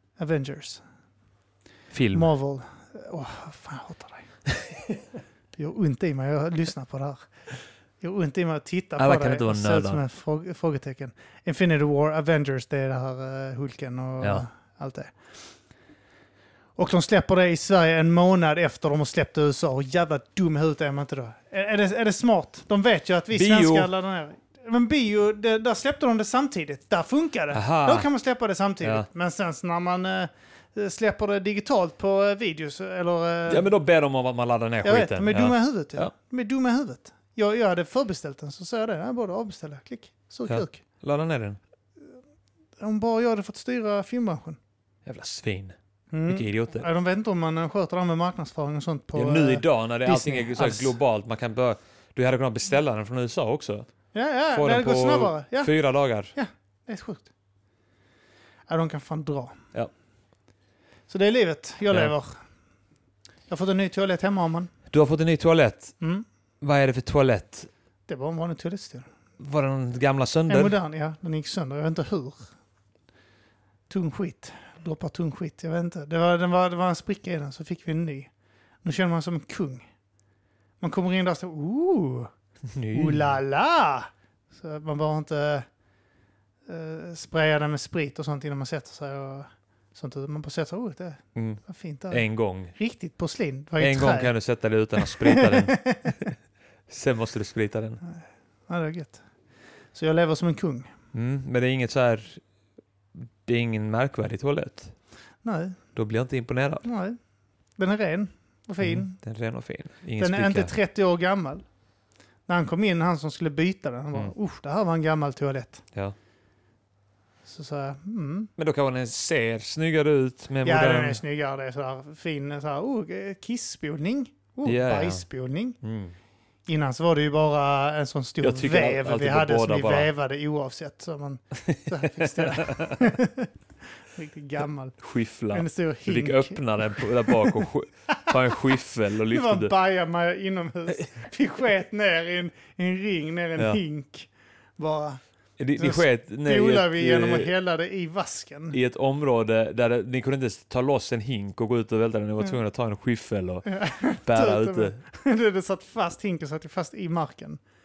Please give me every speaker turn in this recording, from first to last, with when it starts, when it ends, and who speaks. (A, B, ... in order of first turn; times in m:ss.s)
0:00.2-0:00.8 A
0:01.9-0:02.3 B
0:02.1-0:04.3 A
0:05.6-0:07.3 A
0:08.0-0:15.1 A
0:09.0-0:10.0 B
0:14.2-0:14.4 B
0:16.8-0:33.7 A
0:23.3-0:23.9 B
0:27.5-0:28.1 B
0:28.8-0:29.1 B
0:33.5-0:36.1 B
0:34.8-0:40.8 A
0:40.5-0:41.6 B
0:42.8-0:44.6 A
0:45.0-0:45.8 B
0:46.1-0:51.0 A
0:46.3-0:46.8 B
0:49.1-0:53.9 B
0:54.1-0:55.7 A
0:54.5-0:56.3 B
0:56.3-0:57.3 A
0:58.7-0:59.6 A
1:01.1-1:02.4 A
1:03.5-1:04.7 A
1:04.9-1:05.9 B
1:06.0-1:06.2 A
1:06.6-1:07.7 B
1:08.1-1:09.1 A
1:09.4-1:10.7 B
1:10.5-1:12.5 A
1:13.9-1:18.3 A
1:18.8-1:19.8 A
1:20.8-1:22.3 A
1:22.7-1:23.4 B
1:22.9-1:25.6 A
1:26.7-1:34.3 A
1:31.3-1:32.7 B
1:33.8-1:36.1 B
1:35.0-1:36.3 A
1:36.9-1:38.0 B
1:38.0-1:39.2 A
1:39.9-1:40.9 A
1:41.1-1:42.4 B
1:43.2-1:44.9 B
1:45.4-1:45.8 A
1:45.9-1:46.8 B
1:46.8-1:47.2 A
1:47.8-1:49.2 A
1:48.8-1:50.7 B
1:50.2-1:51.6 A
1:52.5-1:55.8 A
1:57.4-1:58.5 A
1:58.6-2:01.2 B
2:00.6-2:05.8 A
2:04.6-2:05.2 B
2:05.8-2:06.2 B
2:06.7-2:13.5 A
2:08.4-2:10.1 B
2:11.6-2:13.1 B
2:14.1-2:15.0 A
2:15.0-2:19.7 B
2:15.5-2:18.6 A
2:19.2-2:25.2 A
2:25.6-2:27.5 B
2:25.8-2:28.8 A
2:28.7-2:33.7 B
2:33.6-2:37.6 A
2:34.2-2:35.0 B